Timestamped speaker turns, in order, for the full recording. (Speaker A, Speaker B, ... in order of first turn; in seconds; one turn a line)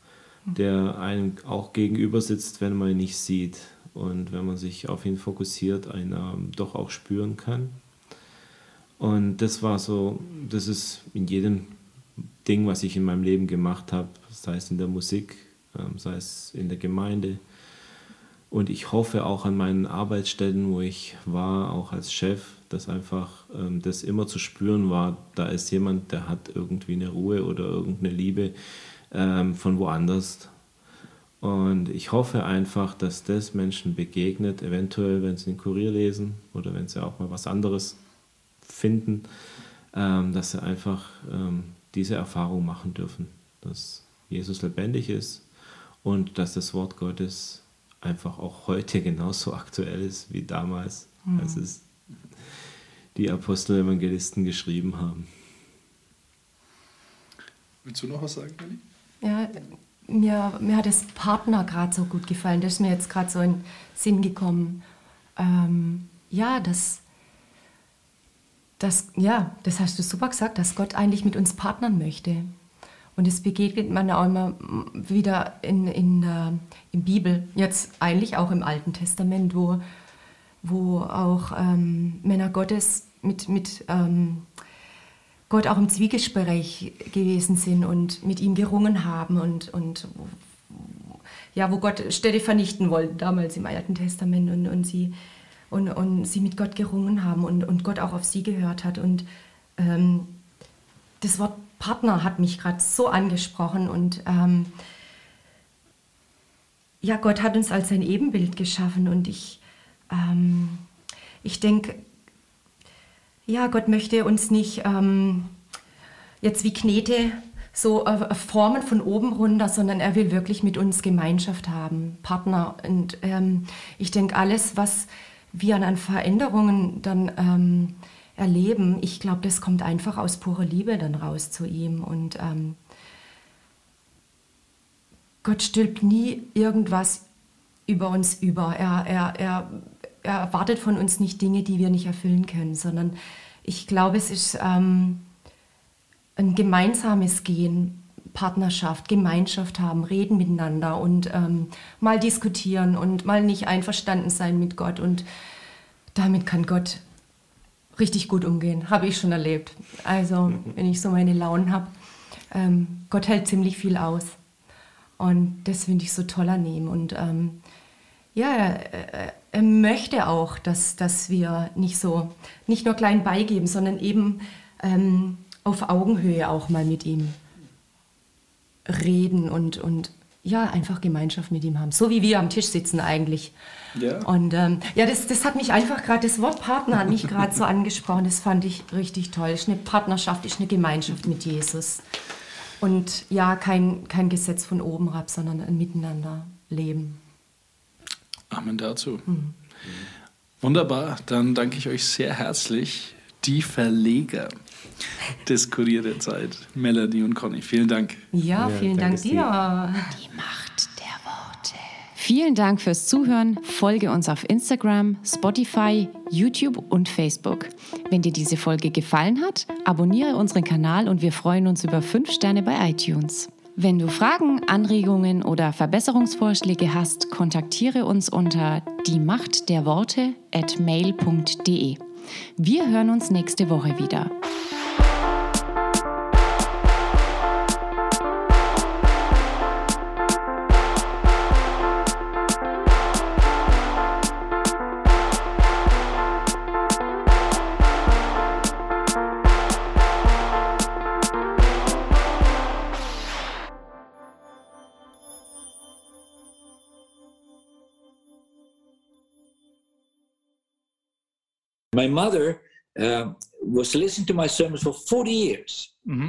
Speaker A: 0.5-7.8
Speaker A: 9.0-17.4
Speaker A: 18.5-30.6
Speaker A: 31.4-38.0
Speaker A: 38.6-51.9
Speaker B: 51.3-51.6
Speaker A: 53.1-55.3
Speaker C: 57.9-58.8
Speaker B: 59.2-64.8
Speaker B: 65.4-67.0
Speaker B: 68.8-72.5
Speaker B: 73.2-79.8
Speaker B: 80.6-84.5
Speaker B: 85.5-95.2
Speaker B: 95.7-100.4
Speaker B: 101.2-104.7
Speaker B: 107.0-110.9
Speaker B: 111.4-112.0
Speaker B: 113.5-115.5
Speaker B: 116.4-132.8
Speaker B: 135.4-137.2
Speaker B: 137.9-145.3
Speaker B: 146.4-155.3
Speaker B: 156.2-157.0
Speaker B: 158.0-161.9
Speaker B: 162.5-164.4
Speaker B: 165.2-167.6
Speaker B: 168.3-177.4
Speaker B: 178.9-183.6
Speaker B: 184.2-192.1
Speaker B: 192.8-197.2
Speaker C: 198.5-199.2
Speaker B: 199.3-199.6
Speaker C: 200.6-204.5
Speaker C: 205.4-208.2
Speaker B: 208.3-210.2
Speaker A: 208.6-209.5
Speaker D: 210.1-232.1
Speaker D: 232.6-234.3
Speaker E: 261.9-266.0